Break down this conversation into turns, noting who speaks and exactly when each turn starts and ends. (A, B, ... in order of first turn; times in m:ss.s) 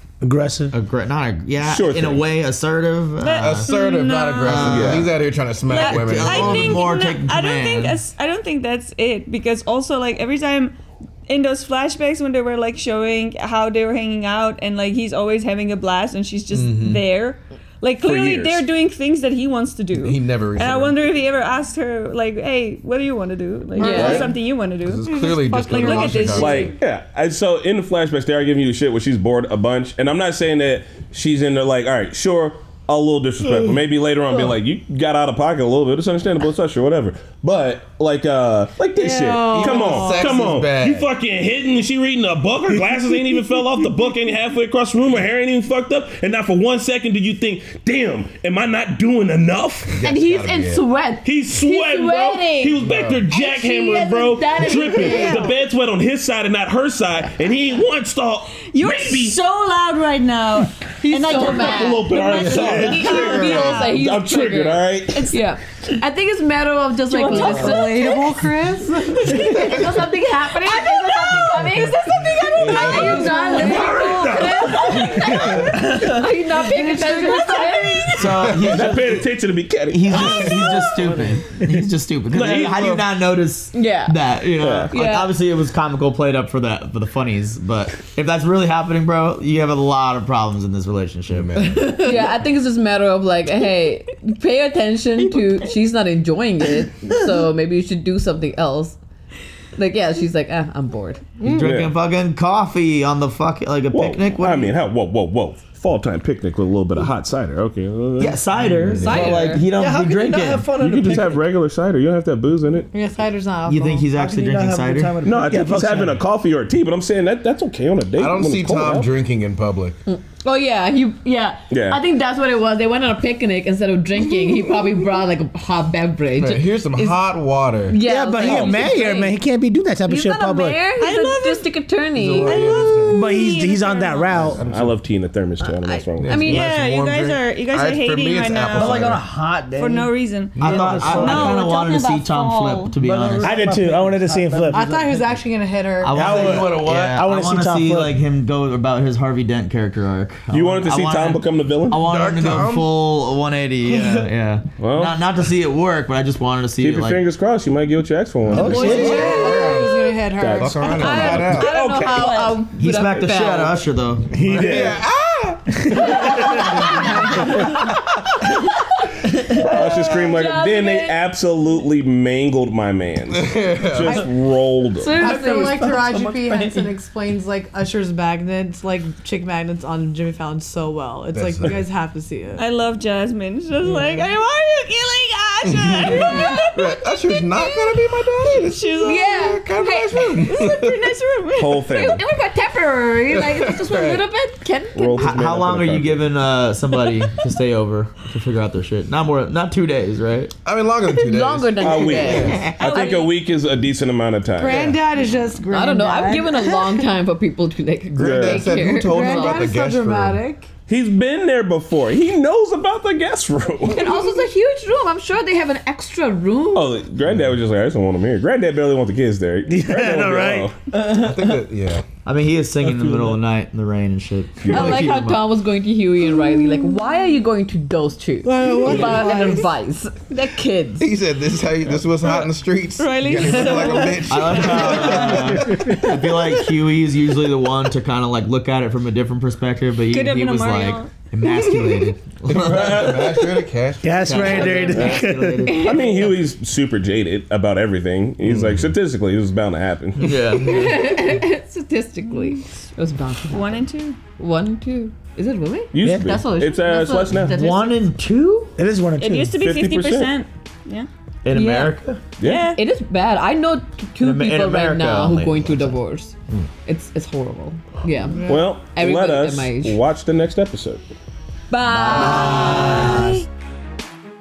0:00.2-0:00.7 A
0:00.7-0:03.9 B
0:01.6-0:02.3 C
0:03.2-0:04.8 D
0:03.4-0:06.9 E
0:04.4-0:05.2 B
0:04.6-0:05.1 C
0:05.6-0:26.8 D
0:05.7-0:08.0 B
0:16.5-0:17.0 E
0:18.0-0:18.6 C
0:20.0-0:21.0 E
0:23.8-0:24.3 F
0:24.0-0:24.3 C
0:24.8-0:26.7 E
0:25.0-0:26.6 G
0:26.2-0:50.0 C
0:39.0-0:40.4 G
0:39.5-0:41.1 E
0:49.9-0:50.9 E
0:50.0-0:55.5 F
0:51.2-0:59.4 C
0:52.8-0:53.2 E
0:58.6-1:04.0 D
1:01.0-1:08.4 F
1:01.5-1:05.3 C
1:05.1-1:05.4 D
1:07.1-1:08.2 D
1:07.4-1:09.3 G
1:07.4-1:07.8 H
1:09.1-1:18.2 F
1:12.6-1:13.2 E
1:12.8-1:13.6 D
1:13.0-1:14.4 G
1:15.7-1:16.3 H
1:16.6-1:18.2 G
1:18.2-1:19.3 B
1:18.6-1:20.8 C
1:19.9-1:32.3 B
1:20.9-1:21.5 H
1:22.3-1:23.1 C
1:23.7-1:24.4 F
1:24.6-1:25.0 C
1:24.9-1:25.4 F
1:31.3-1:32.0 E
1:32.0-1:39.0 F
1:39.8-1:41.3 F
1:41.4-1:44.7 B
1:41.5-1:42.0 C
1:43.9-1:49.0 C
1:48.2-1:50.7 B
1:48.8-1:49.5 E
1:49.0-1:49.6 F
1:49.7-1:51.5 H
1:50.7-1:52.9 C
1:52.9-1:54.2 G
1:53.7-1:55.2 B
1:54.1-1:56.2 H
1:55.2-1:59.1 C
1:55.5-1:56.1 A
1:58.2-2:00.0 E
2:00.1-2:07.2 F
2:01.7-2:02.0 C
2:06.4-2:09.0 E
2:07.9-2:09.4 F
2:08.0-2:10.8 A
2:10.1-2:12.9 F
2:11.0-2:11.7 D
2:12.2-2:13.2 E
2:12.4-2:14.5 D
2:13.1-2:14.6 A
2:14.3-2:15.0 E
2:14.6-2:16.6 C
2:15.8-2:19.2 D
2:16.2-2:19.2 E
2:18.8-2:21.6 H
2:19.7-2:23.0 D
2:20.6-2:23.6 B
2:23.0-2:25.5 H
2:23.4-2:24.8 A
2:24.7-2:26.1 G
2:26.0-2:37.2 B
2:26.1-2:28.2 A
2:26.2-2:27.2 E
2:30.5-2:32.0 C
2:32.0-2:32.9 E
2:33.9-2:34.2 H
2:34.8-2:35.2 C
2:36.8-2:39.6 C
2:38.4-2:40.0 E
2:38.5-2:39.2 A
2:38.6-2:40.9 G
2:39.0-2:39.8 F
2:40.3-2:42.5 C
2:40.6-2:41.7 E
2:40.9-2:43.9 F
2:41.0-2:42.6 D
2:42.7-2:44.5 B
2:44.3-2:44.9 A
2:44.5-2:45.0 C
2:44.5-2:47.1 E
2:49.6-2:55.5 C
2:49.8-2:51.2 F
2:53.3-2:54.3 E
2:55.0-2:55.8 F
2:55.1-3:02.6 G
2:55.3-2:57.0 H
3:01.3-3:01.8 E
3:02.6-3:12.2 D
3:05.6-3:11.1 E
3:09.0-3:10.6 F
3:11.6-3:12.2 C
3:11.9-3:15.4 F
3:13.3-3:14.3 E
3:15.0-3:16.4 C
3:15.2-3:20.5 B
3:20.6-3:22.7 E
3:21.2-3:23.2 F
3:21.8-3:25.0 C
3:22.4-3:22.7 B
3:22.8-3:23.4 D
3:24.6-3:27.0 G
3:24.6-3:25.0 E
3:25.7-3:29.8 F
3:28.1-3:30.4 E
3:28.2-3:28.7 C
3:29.0-3:30.7 G
3:30.9-3:34.3 C
3:33.9-3:37.0 F
3:36.7-3:40.8 C
3:37.2-3:37.6 E
3:39.7-3:40.7 A
3:40.9-3:41.7 H
3:41.0-3:42.0 E
3:42.2-3:45.5 B
3:42.8-3:43.4 H
3:44.6-3:45.0 C
3:44.7-3:51.1 F
3:48.4-3:49.7 G
3:51.0-3:56.0 E
3:52.2-3:54.3 D
3:54.2-4:03.4 B
3:55.7-3:56.0 A
4:00.1-4:01.1 D
4:02.5-4:04.7 E
4:02.6-4:03.4 C
4:04.0-4:05.7 A
4:04.2-4:06.3 B
4:04.9-4:10.4 C
4:05.7-4:06.2 F
4:08.4-4:08.9 E
4:10.2-4:11.1 B
4:10.6-4:13.8 F
4:12.3-4:12.6 D
4:13.5-4:14.2 D
4:14.4-4:18.0 F
4:15.9-4:17.7 C
4:16.0-4:16.4 A
4:17.5-4:18.8 B
4:18.8-4:19.6 A
4:19.2-4:21.1 D
4:19.5-4:20.4 C
4:21.4-4:22.2 B
4:21.5-4:22.0 F
4:22.4-4:22.7 C
4:22.4-4:22.8 D
4:22.7-4:26.4 F
4:24.2-4:26.0 B
4:26.9-4:30.0 F
4:28.4-4:28.7 G
4:28.5-4:31.0 C
4:31.7-4:33.4 F
4:31.8-4:33.4 B